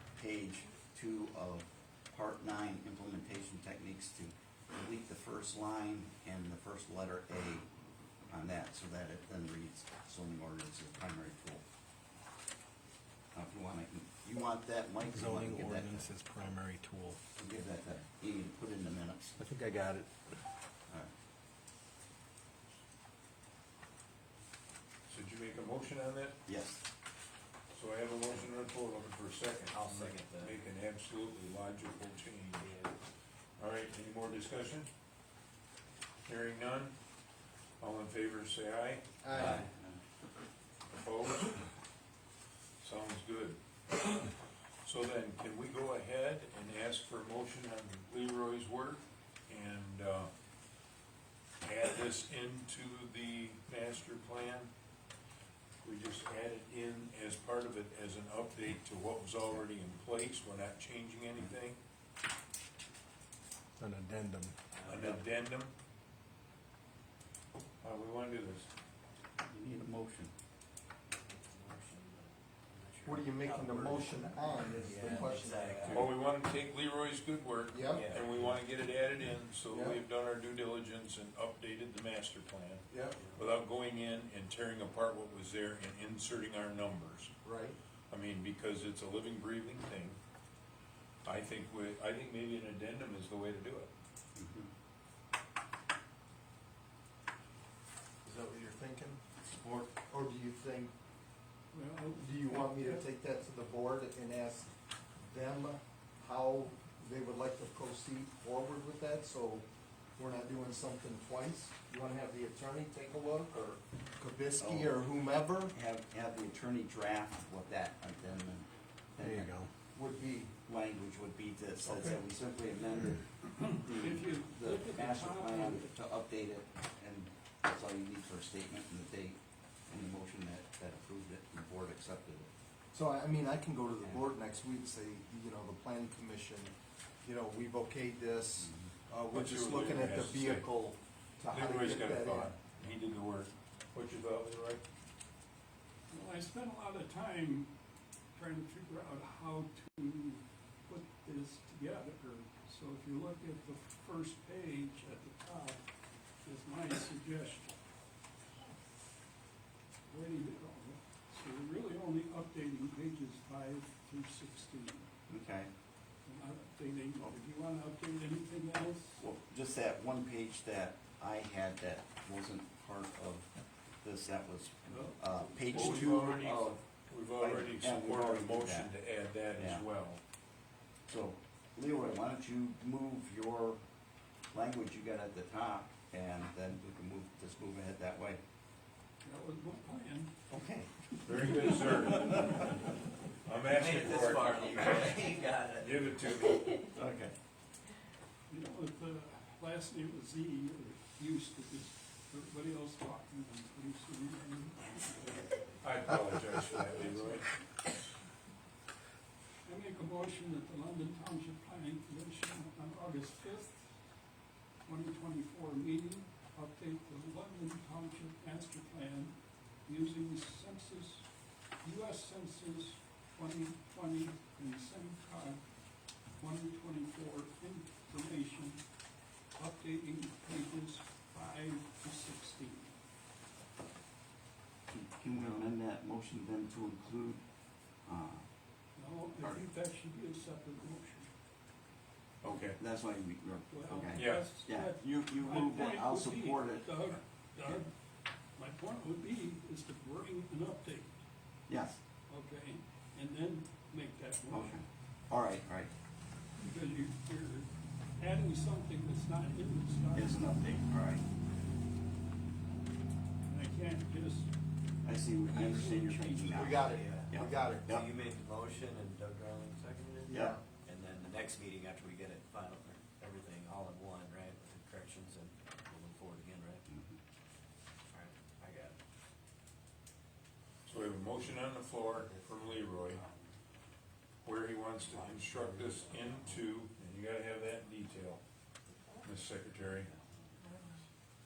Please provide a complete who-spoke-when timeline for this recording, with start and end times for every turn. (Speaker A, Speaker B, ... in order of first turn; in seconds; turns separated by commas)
Speaker A: 0.1-7.7, Speaker A: 8.3-11.6, Speaker A: 13.3-16.1, Speaker B: 15.0-17.2, Speaker A: 17.4-19.4, Speaker B: 19.4-20.1, Speaker C: 25.1-26.4, Speaker A: 26.5-26.8, Speaker C: 27.7-32.7, Speaker D: 29.7-30.6, Speaker D: 32.5-32.9, Speaker C: 33.6-34.9, Speaker C: 36.2-36.9, Speaker C: 37.8-39.0, Speaker E: 39.2-39.6, Speaker A: 39.3-40.0, Speaker D: 39.4-39.6, Speaker C: 40.9-41.6, Speaker C: 42.8-44.3, Speaker C: 44.8-50.3, Speaker C: 51.6-54.7, Speaker C: 55.8-61.8, Speaker B: 63.8-64.5, Speaker D: 64.7-65.2, Speaker C: 64.8-65.7, Speaker C: 67.8-68.7, Speaker A: 69.5-70.3, Speaker D: 71.2-76.1, Speaker E: 73.0-76.1, Speaker C: 75.9-87.3, Speaker E: 77.7-78.0, Speaker D: 77.9-78.6, Speaker E: 79.7-80.0, Speaker E: 82.9-83.2, Speaker D: 83.2-83.4, Speaker E: 87.4-87.8, Speaker C: 88.1-90.2, Speaker C: 91.2-93.9, Speaker A: 94.3-94.7, Speaker E: 98.2-100.9, Speaker F: 101.7-103.0, Speaker E: 102.1-104.7, Speaker E: 105.2-109.7, Speaker E: 110.2-115.7, Speaker A: 114.6-115.0, Speaker A: 115.7-119.5, Speaker B: 119.2-119.7, Speaker E: 119.9-120.5, Speaker A: 120.6-123.2, Speaker E: 121.8-122.2, Speaker F: 123.4-125.9, Speaker A: 123.8-132.5, Speaker E: 132.9-142.5, Speaker A: 138.6-138.9, Speaker C: 139.3-140.7, Speaker C: 141.5-144.8, Speaker F: 146.1-147.7, Speaker F: 148.3-155.8, Speaker F: 156.4-157.8, Speaker F: 160.1-165.1, Speaker A: 165.3-165.7, Speaker F: 166.2-169.2, Speaker A: 169.2-173.5, Speaker A: 174.0-176.8, Speaker F: 174.8-176.4, Speaker C: 175.7-180.2, Speaker A: 177.4-178.9, Speaker A: 179.6-179.8, Speaker A: 181.1-183.8, Speaker A: 184.5-188.4, Speaker F: 189.2-190.3, Speaker A: 190.5-190.9, Speaker C: 191.2-192.8, Speaker C: 193.4-195.2, Speaker D: 193.6-196.3, Speaker C: 195.7-196.9, Speaker A: 196.9-197.3, Speaker F: 198.5-205.6, Speaker C: 205.8-207.5, Speaker F: 207.1-207.4, Speaker F: 209.6-213.9, Speaker F: 214.8-219.3, Speaker F: 219.8-221.3, Speaker F: 221.8-225.6, Speaker F: 226.4-228.8, Speaker F: 229.6-232.9, Speaker A: 231.3-231.6, Speaker A: 234.9-237.4, Speaker A: 238.1-238.5, Speaker F: 238.9-241.3, Speaker A: 239.4-239.6, Speaker C: 242.4-242.8, Speaker A: 242.4-247.1, Speaker F: 243.7-247.9, Speaker C: 244.2-244.5, Speaker F: 248.6-251.2, Speaker A: 251.7-252.0, Speaker F: 252.3-254.8, Speaker A: 254.5-255.9, Speaker F: 256.6-260.7, Speaker A: 260.1-261.2, Speaker F: 263.4-264.5, Speaker A: 265.0-268.1, Speaker F: 265.4-266.6, Speaker E: 266.5-267.9, Speaker D: 266.5-267.3, Speaker D: 267.9-276.8, Speaker E: 270.2-270.6, Speaker A: 270.3-270.6, Speaker A: 276.9-277.2, Speaker D: 278.1-279.0, Speaker C: 280.8-283.2, Speaker D: 282.1-283.5, Speaker C: 284.4-288.4, Speaker D: 285.1-286.4, Speaker C: 289.2-290.1, Speaker D: 289.9-290.5